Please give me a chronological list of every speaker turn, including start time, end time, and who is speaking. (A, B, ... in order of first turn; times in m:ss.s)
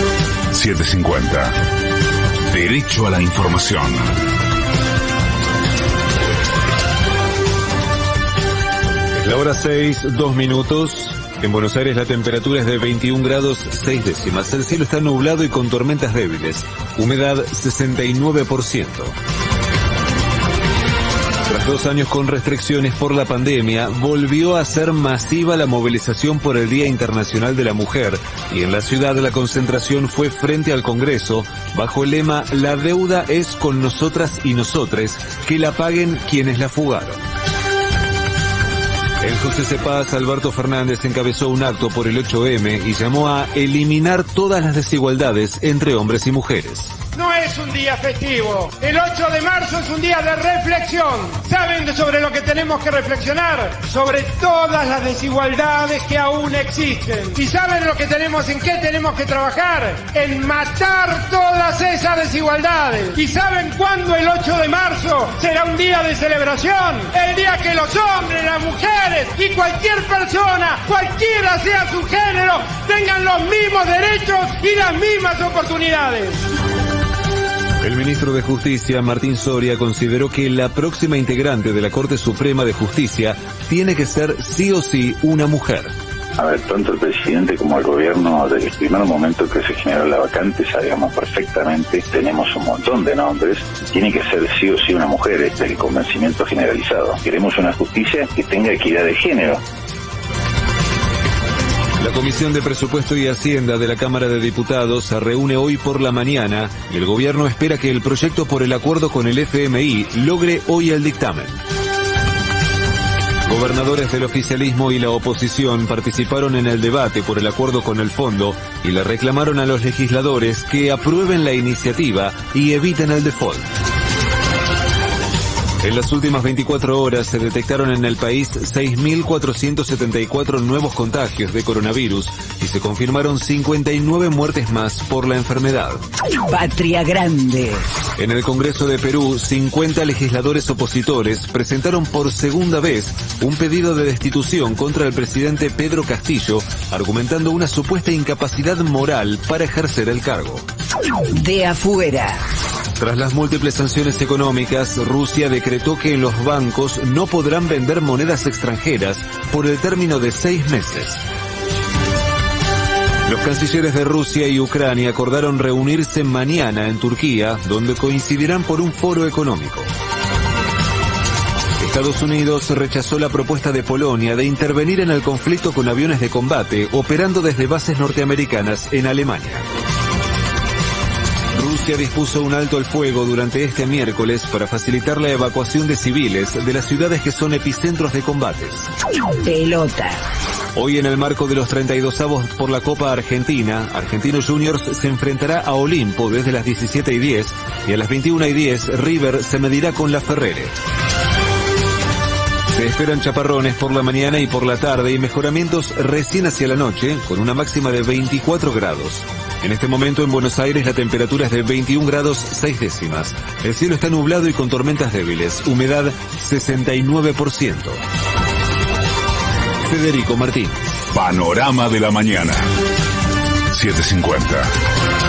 0:00.5-0:01.5 A
0:02.5-0:04.0 A
0:09.1-0:19.1 B
0:21.4-0:37.2 B
0:39.2-0:46.9 B
0:47.1-1:16.4 C
1:17.8-1:25.9 B
1:26.4-1:39.6 D
1:42.0-1:51.6 B
1:53.4-2:03.7 B
2:05.8-2:16.0 B
2:16.4-2:17.8 E
2:18.2-2:30.6 B
2:31.4-2:32.4 E
2:33.0-2:41.2 B
2:43.2-2:49.9 B
2:51.8-2:59.7 B
3:01.5-3:08.9 B
3:09.4-3:10.2 E
3:10.7-3:20.7 B
3:22.7-3:38.0 B
3:39.8-3:40.8 B
3:41.1-3:42.6 A
3:43.7-3:44.7 A